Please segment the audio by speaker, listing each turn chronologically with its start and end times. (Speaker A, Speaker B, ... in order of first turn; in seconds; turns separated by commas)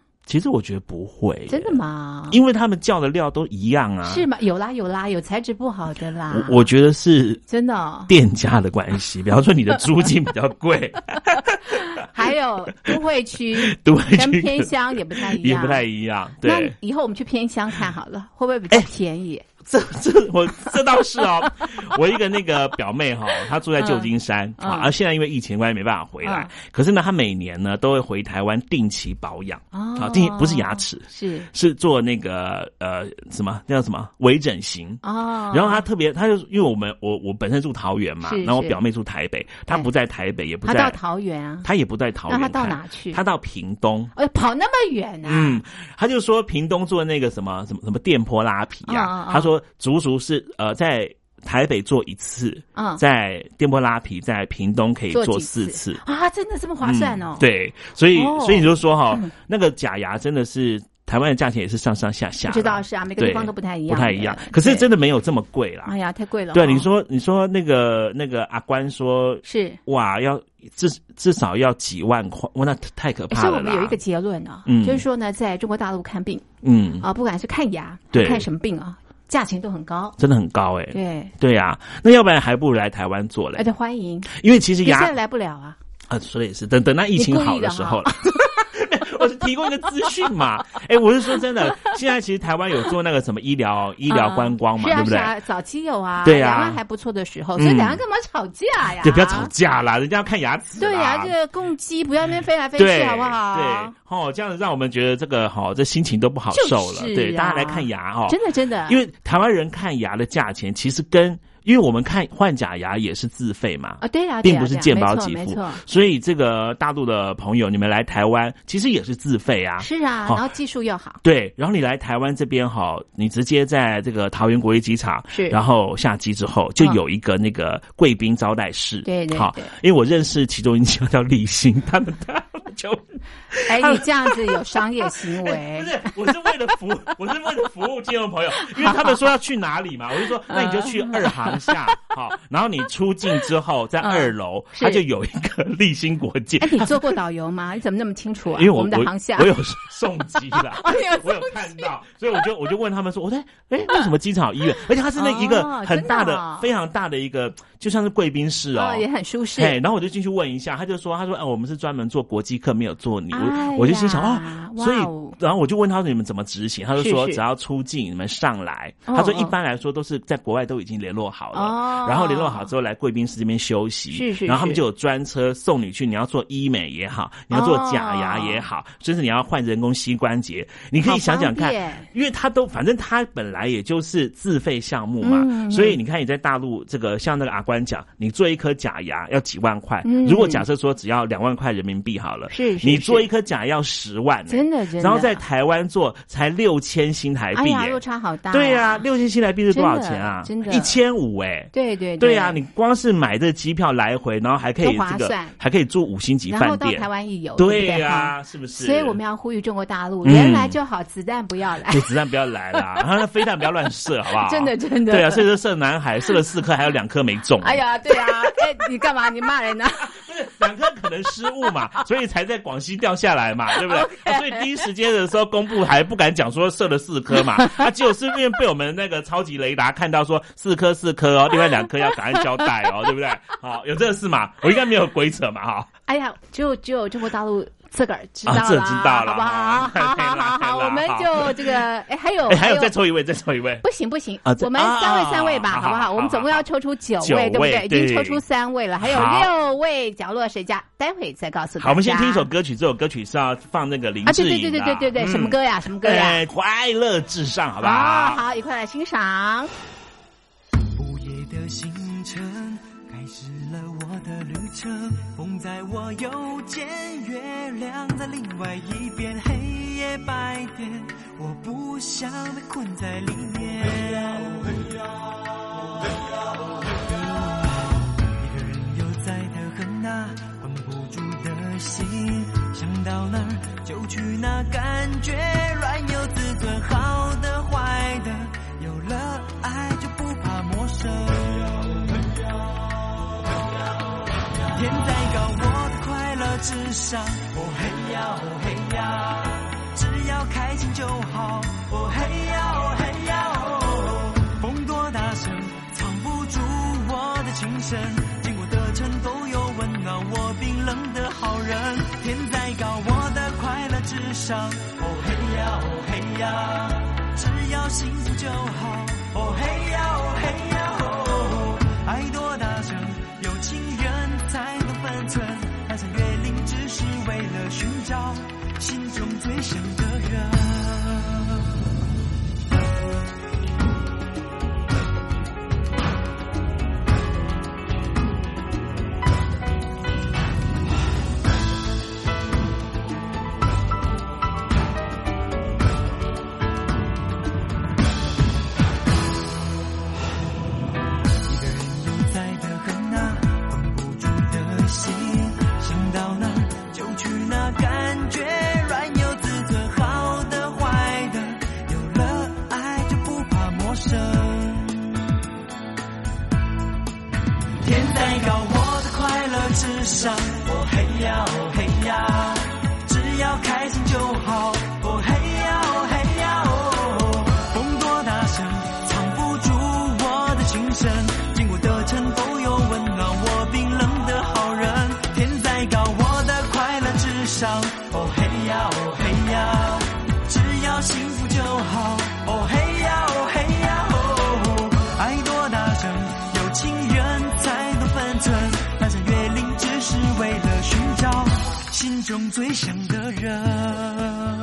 Speaker A: 0.2-4.3, Speaker B: 1.5-2.4, Speaker B: 4.0-6.6, Speaker A: 6.3-7.4, Speaker B: 7.5-8.1, Speaker A: 8.1-12.0, Speaker B: 11.8-15.8, Speaker A: 13.6-16.8, Speaker B: 16.4-19.4, Speaker A: 19.6-41.0, Speaker B: 23.8-24.9, Speaker B: 26.2-26.5, Speaker B: 29.7-31.5, Speaker B: 35.0-35.8, Speaker B: 38.2-38.8, Speaker B: 40.6-41.7, Speaker A: 41.6-44.1, Speaker B: 42.3-43.2, Speaker B: 44.1-45.6, Speaker A: 45.2-56.0, Speaker B: 48.9-49.5, Speaker B: 52.7-53.0, Speaker B: 55.1-57.5, Speaker A: 56.8-65.9, Speaker B: 58.1-59.3, Speaker B: 62.5-64.9, Speaker B: 65.8-66.8, Speaker A: 66.5-74.0, Speaker B: 69.4-69.8, Speaker B: 73.3-76.4, Speaker A: 74.7-75.0, Speaker A: 76.6-77.0, Speaker B: 77.0-80.2, Speaker A: 78.1-78.5, Speaker A: 80.2-83.6, Speaker B: 80.9-81.3, Speaker B: 83.5-84.3, Speaker A: 84.3-85.1, Speaker B: 84.8-85.8, Speaker A: 86.1-95.3, Speaker B: 87.1-88.7, Speaker B: 94.1-99.5, Speaker A: 96.2-96.8, Speaker A: 97.6-98.0, Speaker A: 99.0-101.3, Speaker B: 100.8-103.9, Speaker A: 102.8-120.4, Speaker B: 106.5-109.0, Speaker B: 114.0-115.8, Speaker B: 119.8-121.2, Speaker A: 121.2-147.2, Speaker B: 125.3-125.6, Speaker B: 129.0-129.7, Speaker B: 133.7-136.1, Speaker B: 138.6-139.2, Speaker B: 140.5-141.8, Speaker B: 144.0-145.0, Speaker B: 146.6-149.5, Speaker A: 148.5-198.0, Speaker B: 150.8-151.9, Speaker B: 155.2-156.7, Speaker B: 158.7-159.8, Speaker B: 163.3-165.4, Speaker B: 167.0-167.4, Speaker B: 169.1-169.5, Speaker B: 171.5-172.7, Speaker B: 174.1-174.8, Speaker B: 177.5-178.6, Speaker B: 181.0-182.1, Speaker B: 185.2-186.0, Speaker B: 190.0-190.6, Speaker B: 192.5-193.3, Speaker B: 194.5-195.4, Speaker B: 197.5-199.0, Speaker A: 198.5-209.2, Speaker B: 199.7-200.9, Speaker B: 201.7-202.6, Speaker B: 204.8-205.6, Speaker B: 206.5-212.1, Speaker A: 210.2-210.8, Speaker A: 211.9-217.8, Speaker B: 212.7-213.0, Speaker B: 214.3-215.5, Speaker B: 217.6-220.1, Speaker A: 220.0-235.9, Speaker B: 223.8-224.7, Speaker B: 236.1-242.9, Speaker A: 238.4-241.8, Speaker A: 242.5-243.8, Speaker B: 243.8-252.5, Speaker A: 244.4-246.6, Speaker A: 247.2-248.4, Speaker A: 249.0-249.5, Speaker A: 251.8-258.4, Speaker B: 254.2-256.4, Speaker B: 257.8-259.7, Speaker C: 261.0-274.6, Speaker C: 278.4-291.9, Speaker C: 294.8-331.2, Speaker C: 351.5-364.9, Speaker C: 367.8-404.2